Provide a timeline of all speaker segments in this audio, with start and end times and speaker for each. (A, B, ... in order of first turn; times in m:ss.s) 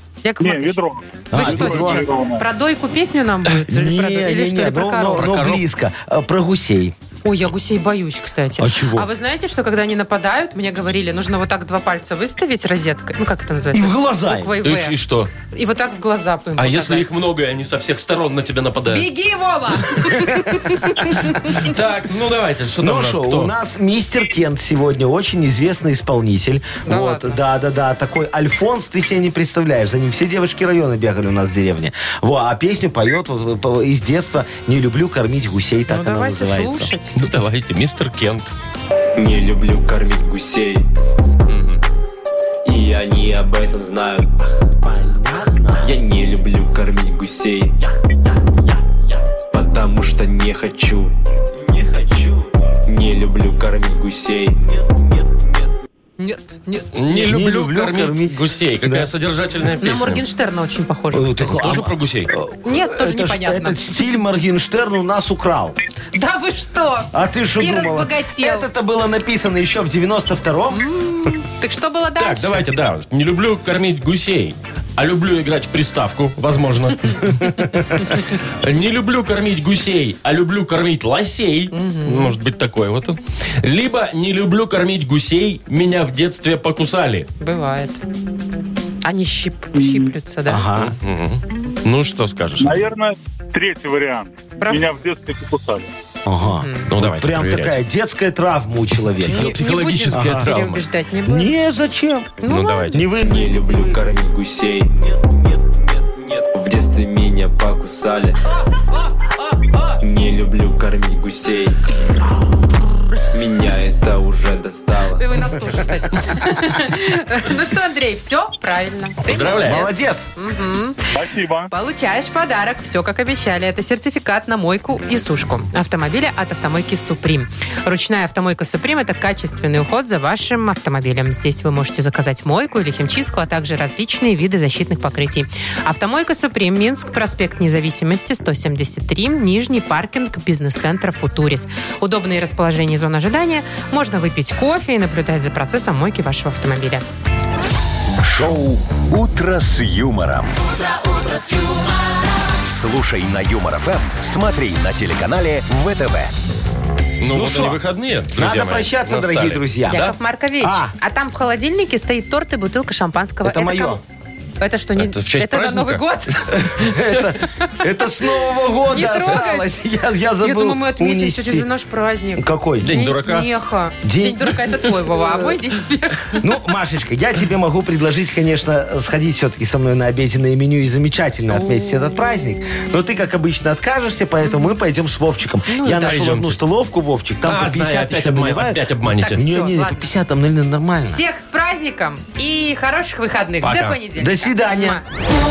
0:00.2-0:00.8 A
0:00.4-0:02.5 B
0:01.3-0:02.1 C
0:01.3-0:05.3 A
0:03.7-0:06.9 C
0:05.2-0:05.6 D
0:07.2-0:15.0 A
0:08.6-0:09.1 C
0:13.7-0:14.5 C
0:14.6-0:15.3 D
0:15.5-0:17.2 A
0:16.6-0:19.0 D
0:18.9-0:21.7 A
0:21.0-0:23.5 D
0:22.8-0:36.9 C
0:26.8-0:27.4 A
0:35.9-0:37.2 A
0:37.2-0:38.5 D
0:39.2-0:40.8 E
0:41.5-0:41.8 D
0:42.6-0:44.3 E
0:44.8-0:46.0 C
0:45.8-0:47.7 E
0:49.5-0:51.1 E
0:52.9-0:54.6 E
0:56.2-0:57.2 A
0:56.9-1:00.2 D
0:57.1-0:59.1 C
0:59.8-1:01.7 A
1:01.1-1:05.8 C
1:01.5-1:02.3 D
1:02.6-1:04.1 A
1:06.1-1:08.7 A
1:07.1-1:10.8 C
1:10.7-1:12.6 A
1:12.2-1:27.3 D
1:21.7-1:22.4 A
1:27.4-1:28.0 A
1:29.0-1:30.7 A
1:29.7-1:30.1 B
1:30.5-1:31.0 C
1:31.0-1:32.8 D
1:32.6-1:35.9 B
1:34.6-1:34.8 A
1:36.2-1:39.6 C
1:36.6-1:36.9 A
1:36.9-1:37.8 D
1:39.2-1:40.8 D
1:39.2-1:41.5 A
1:40.1-1:40.5 C
1:41.2-1:43.7 C
1:42.4-1:43.0 A
1:42.4-1:43.0 D
1:43.3-1:44.9 E
1:46.5-1:48.4 E
1:48.7-1:50.0 A
1:50.0-1:51.8 E
1:53.3-1:55.2 E
1:55.2-2:01.1 A
1:59.2-1:59.8 D
1:59.6-2:00.3 C
2:01.1-2:01.7 B
2:01.7-2:27.0 A
2:28.2-2:30.5 F
2:32.7-2:36.3 F
2:37.2-2:40.1 D
2:37.3-2:37.8 C
2:38.3-2:40.1 C
2:39.9-2:44.0 A
2:40.6-2:40.9 C
2:43.4-2:44.0 C
2:44.6-2:49.8 A
2:45.0-2:46.0 D
2:46.5-2:51.7 C
2:50.4-2:56.4 A
2:52.4-2:53.0 C
2:52.8-2:53.5 D
2:54.0-2:54.6 C
2:56.4-3:11.2 C
3:01.5-3:02.1 A
3:04.4-3:04.7 A
3:05.7-3:06.2 A
3:05.9-3:06.6 D
3:07.4-3:09.4 D
3:09.2-3:10.1 A
3:11.1-3:15.0 A
3:13.6-3:14.0 D
3:14.2-3:15.0 C